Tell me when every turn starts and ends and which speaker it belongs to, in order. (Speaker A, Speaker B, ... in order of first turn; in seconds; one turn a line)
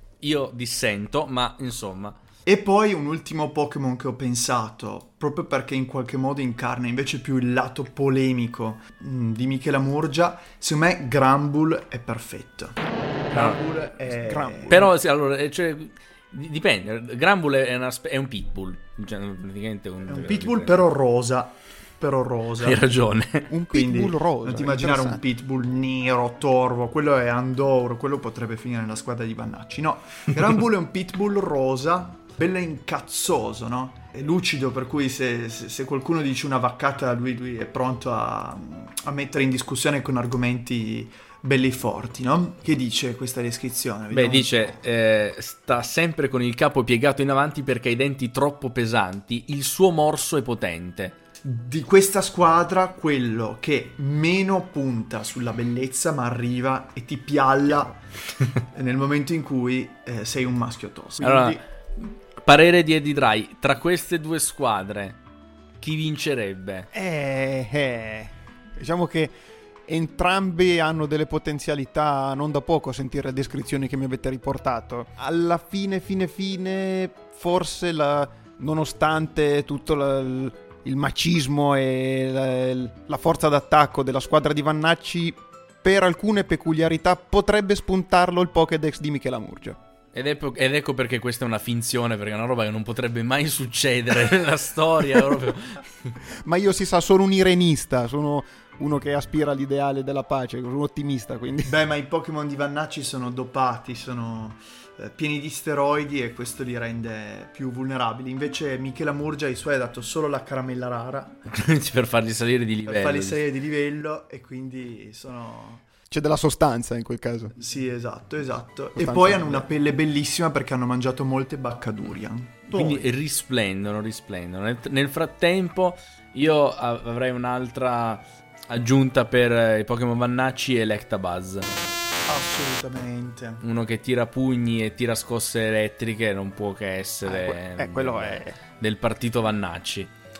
Speaker A: 0.2-2.1
Speaker B: 2.5-14.9
Speaker A: 13.3-13.6
Speaker C: 14.1-14.9
Speaker A: 14.7-20.8
Speaker B: 20.1-22.8
Speaker A: 22.6-23.5
Speaker C: 23.5-25.2
Speaker B: 23.7-44.8
Speaker A: 44.1-51.1
Speaker B: 51.4-58.0
Speaker B: 58.7-61.6
Speaker A: 61.2-65.2
Speaker A: 65.8-66.9
Speaker C: 66.9-89.8
Speaker A: 90.1-96.1
Speaker C: 96.4-101.7
Speaker B: 101.6-111.4
Speaker A: 111.5-113.4
Speaker B: 112.8-115.8
Speaker C: 116.1-117.5
Speaker B: 117.6-123.0
Speaker C: 119.0-119.7
Speaker A: 122.7-131.7
Speaker B: 132.3-133.6
Speaker A: 133.6-140.1
Speaker C: 137.2-138.6